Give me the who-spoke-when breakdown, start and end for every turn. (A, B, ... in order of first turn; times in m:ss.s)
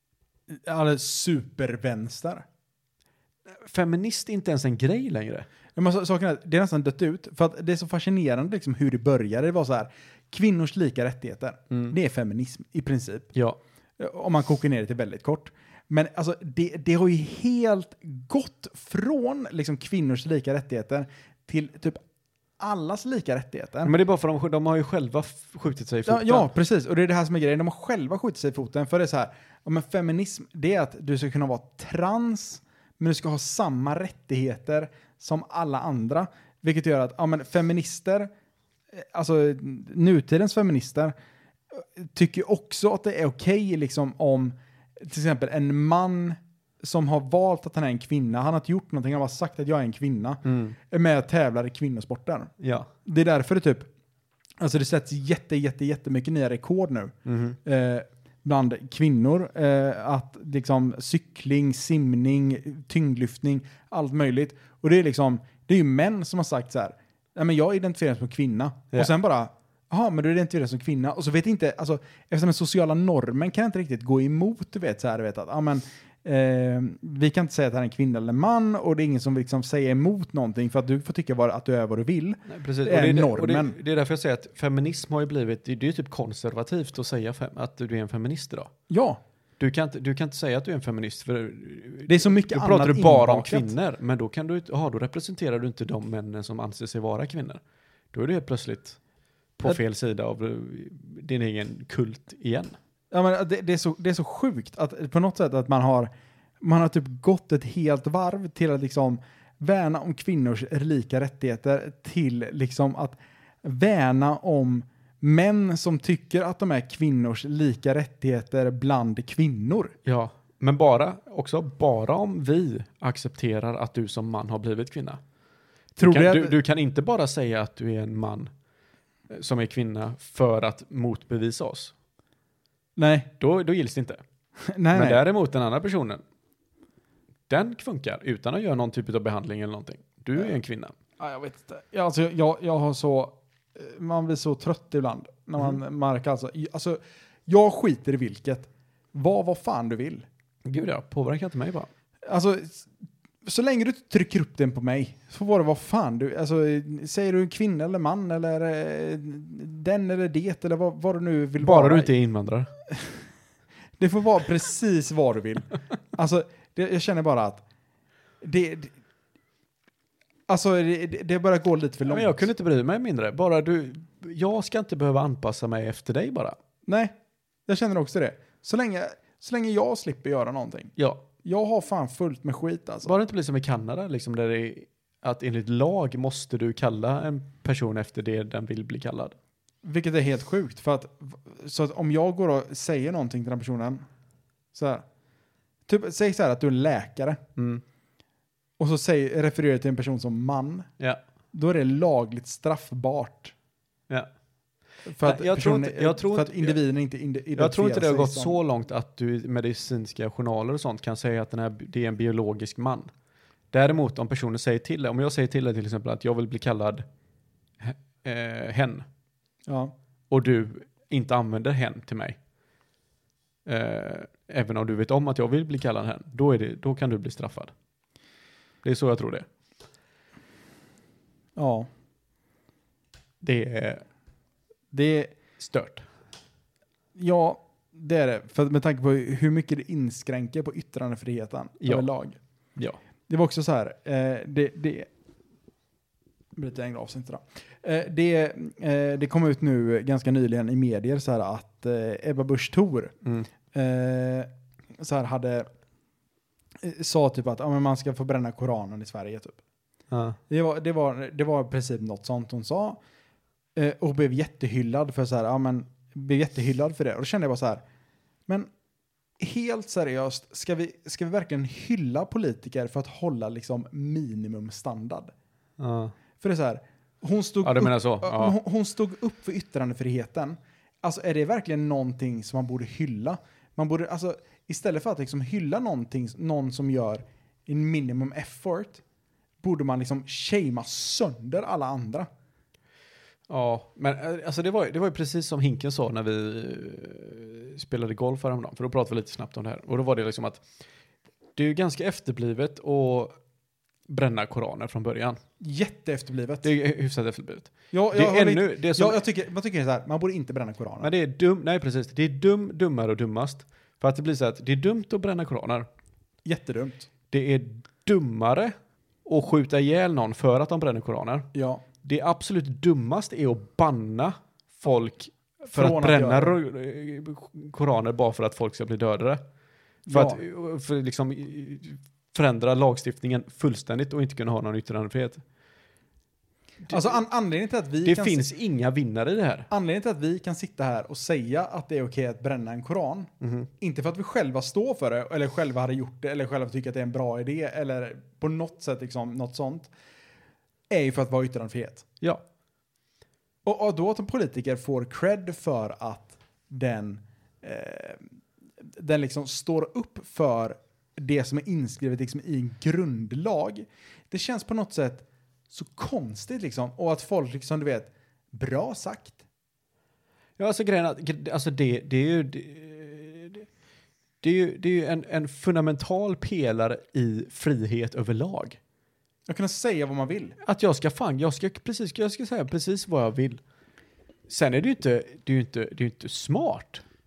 0:00.5-0:02.4 A
0:03.5-0:05.5 B
0:05.8-0:13.3 A
0:14.0-0:22.0 A
0:22.6-0:23.9 A
0:23.8-0:26.5 B
0:26.1-0:38.3 A
0:38.9-0:41.1 A
0:41.7-0:52.5 A
0:50.4-0:50.8 B
0:52.6-0:52.9 B
0:53.0-0:53.9 A
0:54.6-1:23.8 A
0:57.2-0:57.6 B
1:22.5-1:28.7 B
1:28.9-1:29.2 A
1:29.6-1:37.6 B
1:32.1-1:33.7 A
1:38.1-1:39.0 B
1:39.6-1:42.8 B
1:43.1-1:59.9 A
2:00.0-2:05.2 B
2:06.0-2:06.6 A
2:06.0-2:08.5 B
2:09.3-2:11.9 B
2:13.0-2:13.3 A
2:13.4-2:14.2 B
2:14.7-2:15.2 A
2:14.9-2:16.2 B
2:17.5-2:21.0 B
2:21.2-2:30.2 A
2:30.6-2:31.9 B
2:32.3-2:32.9 A
2:33.4-2:42.1 A
2:41.6-2:42.7 B
2:44.0-2:47.6 A
2:48.4-2:48.9 A
2:50.5-2:52.5 A
2:52.0-2:56.6 B
2:56.9-2:57.1 A
2:57.7-3:03.1 A
3:01.0-3:01.2 B
3:03.0-3:09.4 B
3:09.8-3:14.0 A
3:14.7-3:15.0 A
3:15.9-3:17.4 A
3:17.6-3:17.8 B
3:18.8-3:20.9 A
3:21.5-3:23.5 A
3:25.1-3:28.6 A
3:25.2-3:26.8 B
3:27.6-3:33.1 B
3:33.7-3:37.0 B
3:37.8-3:39.1 B
3:39.7-3:39.9 A
3:40.3-3:42.4 B
3:43.6-3:47.7 B
3:48.8-3:49.5 B
3:51.6-3:51.9 A
3:53.4-3:54.0 B
3:54.9-3:55.3 A
3:55.6-3:56.1 B
3:57.2-4:02.4 A
4:01.8-4:02.1 B
4:03.3-4:05.1 A
4:06.6-4:13.1 A
4:13.7-4:15.7 A
4:16.8-4:19.6 A
4:20.1-4:20.4 B
4:20.5-4:23.0 A
4:23.8-4:27.8 A
4:29.4-4:35.3 A
4:35.8-4:36.1 B
4:36.4-4:49.0 A
4:37.6-4:38.6 B
4:49.6-4:52.3 A
4:53.5-5:00.6 B
5:01.6-5:03.4 B
5:04.1-5:05.4 B
5:05.6-5:06.7 A
5:06.6-5:09.2 B
5:07.9-5:11.1 A
5:11.0-5:15.9 B
5:16.4-5:17.1 A
5:17.3-5:18.7 B
5:19.2-5:21.5 B
5:21.5-5:21.8 A
5:22.0-5:29.4 B
5:25.7-5:26.6 A
5:30.1-5:30.4 A
5:30.1-5:35.4 B
5:36.9-5:38.5 A
5:38.0-5:39.7 B
5:39.7-5:49.9 A
5:43.4-5:43.7 B
5:50.9-5:52.1 A
5:53.6-5:58.3 A
5:59.0-6:09.4 A
6:10.6-6:13.7 B
6:14.4-6:18.8 B
6:19.5-6:20.6 A
6:20.6-6:23.6 B
6:24.5-6:27.0 B